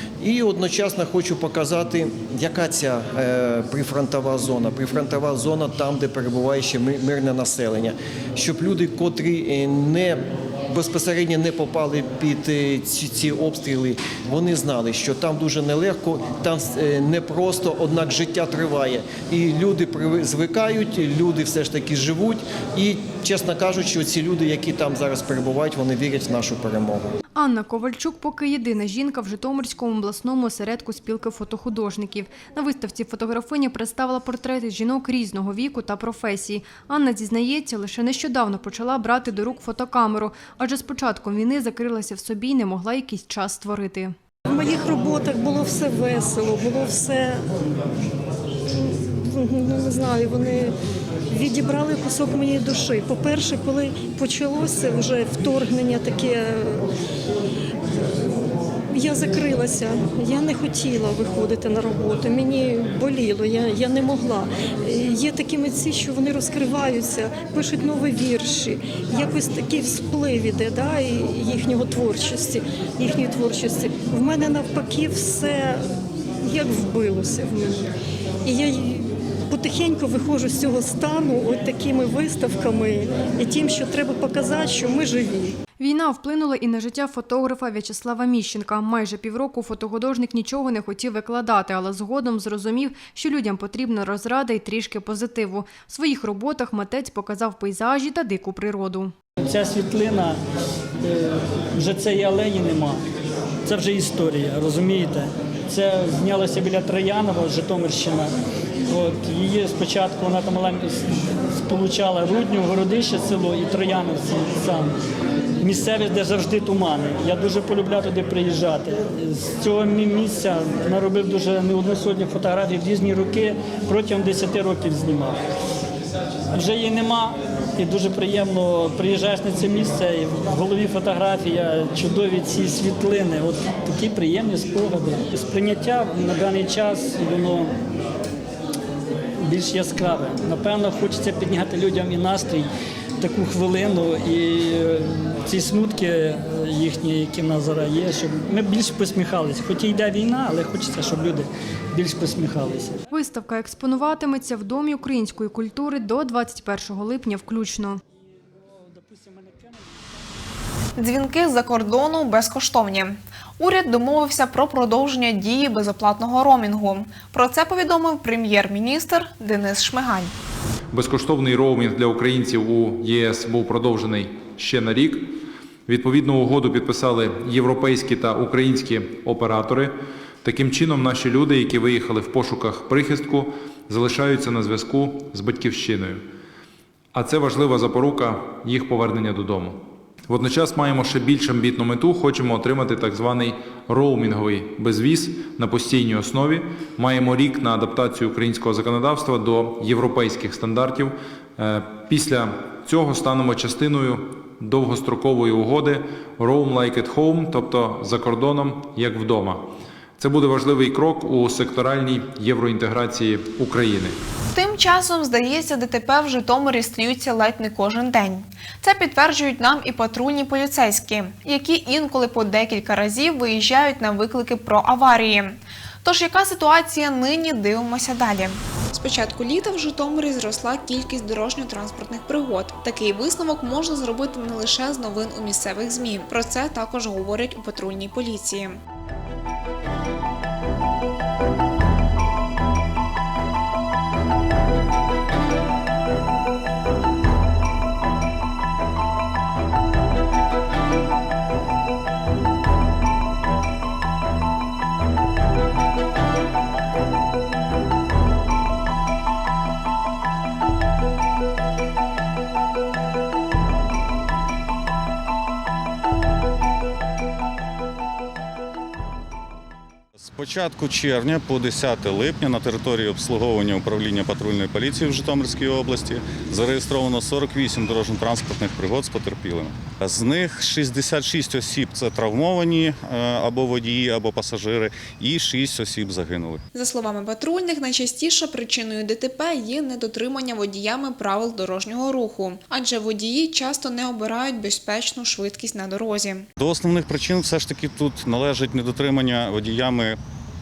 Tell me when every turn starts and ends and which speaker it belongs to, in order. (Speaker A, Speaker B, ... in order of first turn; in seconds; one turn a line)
Speaker A: 0.2-27.0
Speaker B: 27.3-44.1
Speaker C: 44.5-47.4
Speaker C: 48.8-50.7
Speaker C: 51.3-56.9
Speaker C: 58.9-75.8
Speaker C: 76.4-77.8
Speaker C: 78.4-85.6
Speaker B: 85.8-99.1
Speaker D: 99.4-100.4
Speaker D: 101.0-103.0
Speaker D: 103.6-108.3
Speaker D: 108.9-114.9
Speaker D: 115.6-125.4
Speaker D: 126.5-137.7
Speaker D: 139.4-152.9
Speaker B: 153.1-158.0
Speaker E: 161.0-170.3
Speaker F: 170.9-186.2
Speaker F: 187.1-214.2
Speaker E: 214.5-238.8
Speaker G: 270.2-286.6
Speaker E: 286.7-296.5
Speaker G: 296.6-300.2